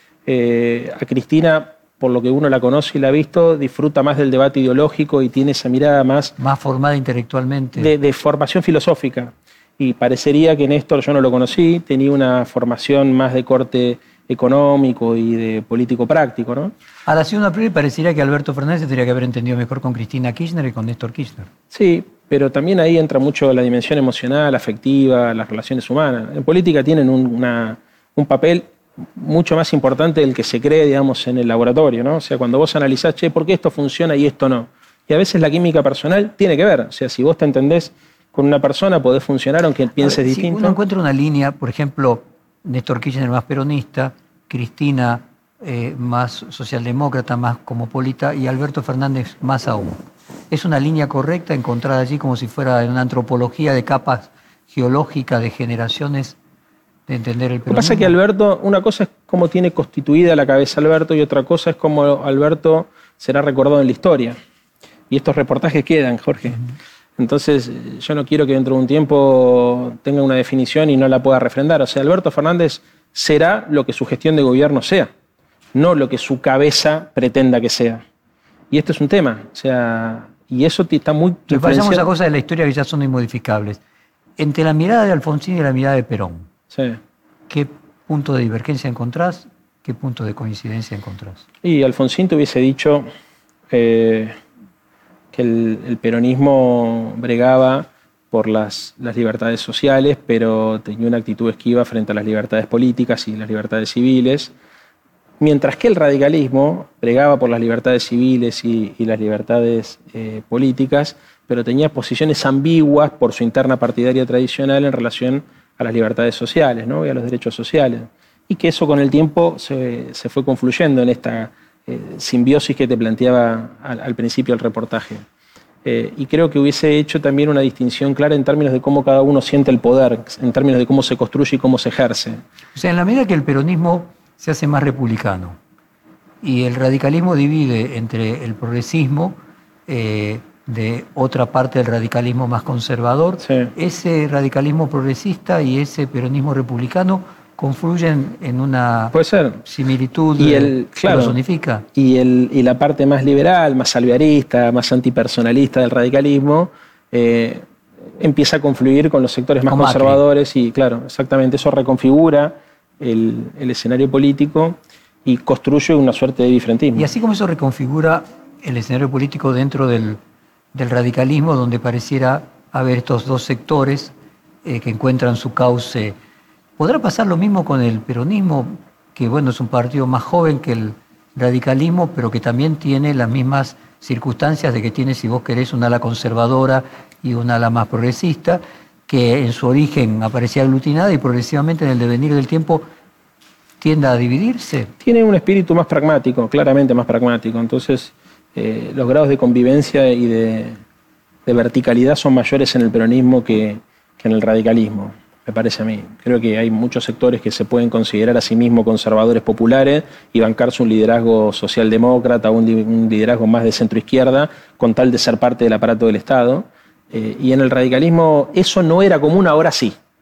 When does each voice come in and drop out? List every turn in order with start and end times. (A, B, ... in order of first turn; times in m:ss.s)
0:00.3-0:06.4 A
0:06.4-0:07.9 B
0:07.8-0:16.7 A
0:17.1-0:21.5 B
0:21.7-0:40.8 A
0:40.0-0:56.4 B
0:57.1-0:58.2 B
0:57.7-1:04.4 A
1:05.1-1:06.6 A
1:07.2-1:15.1 A
1:15.8-1:18.0 A
1:18.7-1:22.0 A
1:21.5-1:23.8 B
1:24.4-1:26.5 B
1:26.7-1:27.0 A
1:27.5-1:31.4 B
1:31.6-1:33.1 A
1:33.7-1:34.4 A
1:35.3-1:44.5 A
1:45.4-2:05.2 A
2:05.8-2:12.4 A
2:12.8-2:15.6 B
2:16.4-2:31.9 B
2:23.4-2:23.7 A
2:29.1-2:29.6 A
2:30.4-2:31.4 A
2:32.0-2:37.6 A
2:38.2-2:47.1 A
2:39.7-2:40.2 B
2:47.0-2:50.2 B
2:50.7-2:56.2 B
2:56.8-3:12.9 B
3:13.8-3:14.9 B
3:15.0-3:20.8 A
3:21.5-3:40.0 A